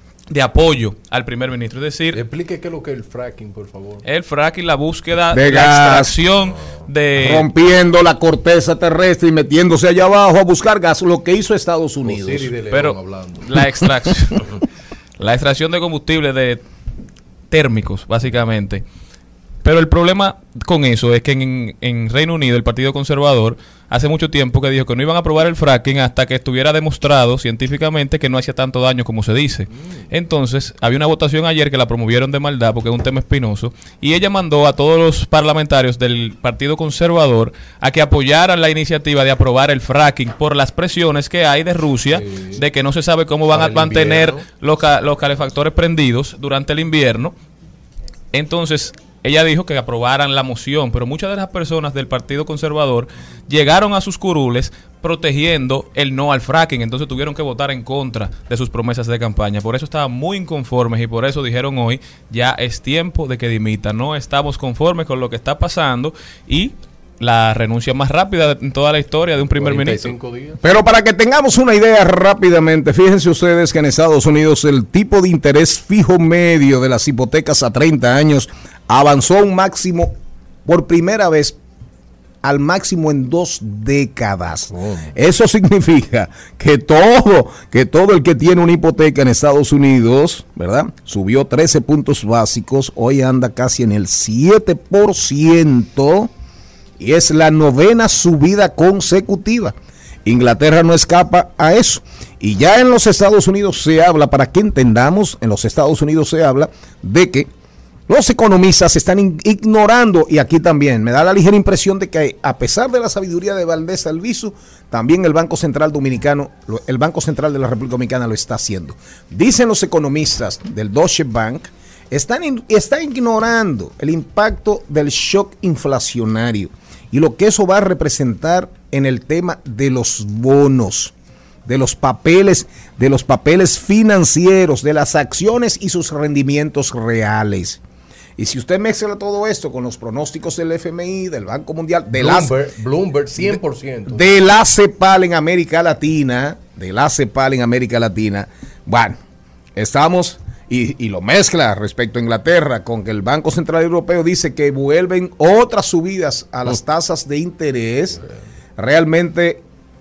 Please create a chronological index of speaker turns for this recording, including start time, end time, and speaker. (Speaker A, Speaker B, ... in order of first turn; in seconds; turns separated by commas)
Speaker A: 0.3-2.2, Speaker B: 2.1-4.0, Speaker A: 4.0-7.5, Speaker C: 5.3-6.1, Speaker C: 7.2-12.5, Speaker B: 12.0-13.5, Speaker A: 12.7-14.6, Speaker A: 15.2-16.6, Speaker A: 17.5-18.8, Speaker A: 19.6-47.3, Speaker B: 29.7-30.0, Speaker B: 42.1-42.6, Speaker B: 43.5-44.4, Speaker A: 48.3-70.1, Speaker B: 69.6-70.6, Speaker C: 70.6-80.1, Speaker C: 80.7-81.6, Speaker C: 82.4-96.3, Speaker B: 84.7-85.1, Speaker C: 97.0-107.5, Speaker C: 108.1-131.1, Speaker C: 131.7-137.8, Speaker C: 138.4-142.5, Speaker B: 142.2-144.3, Speaker C: 143.4-149.2, Speaker C: 149.8-158.2, Speaker C: 158.8-159.6